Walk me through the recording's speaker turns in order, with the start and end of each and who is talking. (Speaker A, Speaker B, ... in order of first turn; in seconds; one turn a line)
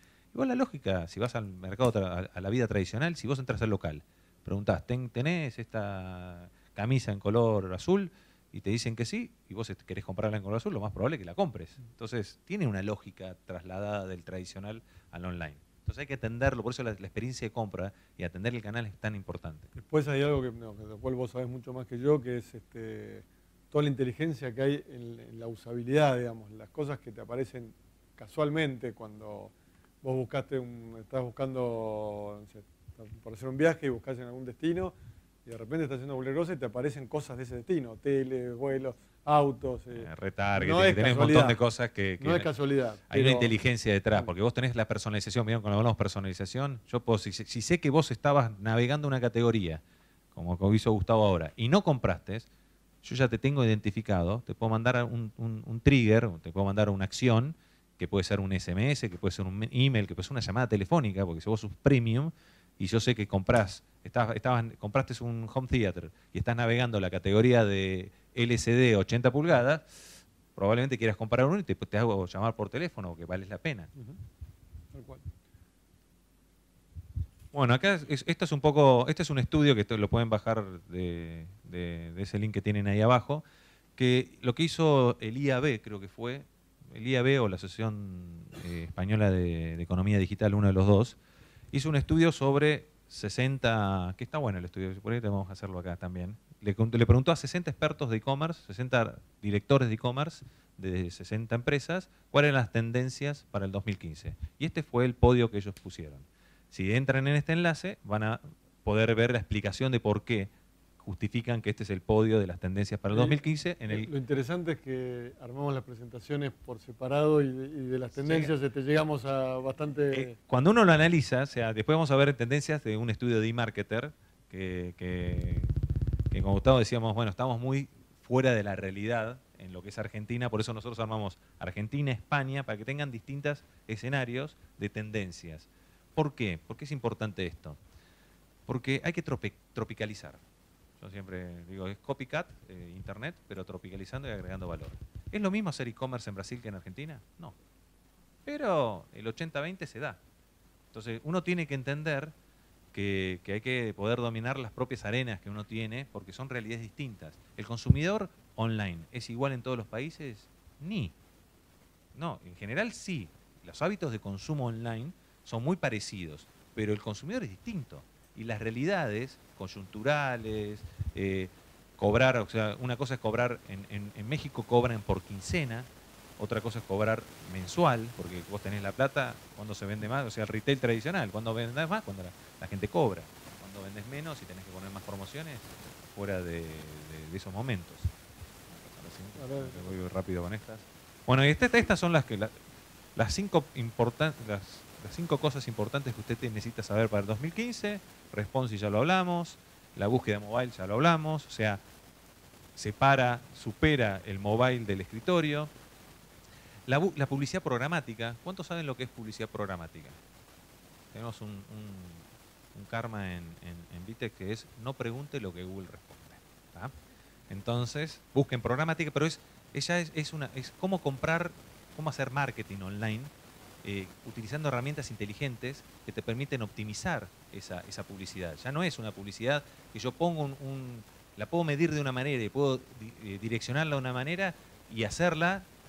Speaker A: 0.3-19.7
Speaker B: 19.7-34.9
Speaker B: 35.5-41.6
Speaker A: 40.0-42.5
Speaker B: 42.2-43.5
Speaker A: 43.1-49.8
Speaker A: 50.3-52.5
Speaker A: 53.0-73.9
Speaker B: 74.9-75.2
Speaker A: 77.5-83.4
Speaker A: 84.0-91.2
Speaker A: 91.7-114.1
Speaker B: 113.1-120.3
Speaker A: 118.2-118.5
Speaker A: 120.1-125.7
Speaker A: 126.3-137.8
Speaker A: 138.7-140.4
Speaker A: 141.0-147.6
Speaker A: 148.4-150.2
Speaker A: 150.9-152.3
Speaker A: 152.9-161.1
Speaker A: 162.1-188.1
Speaker A: 188.7-192.5
Speaker B: 189.3-189.9
Speaker A: 193.2-201.8
Speaker A: 202.8-205.7
Speaker A: 206.9-210.2
Speaker A: 211.1-216.9
Speaker A: 217.5-223.3
Speaker A: 223.8-235.7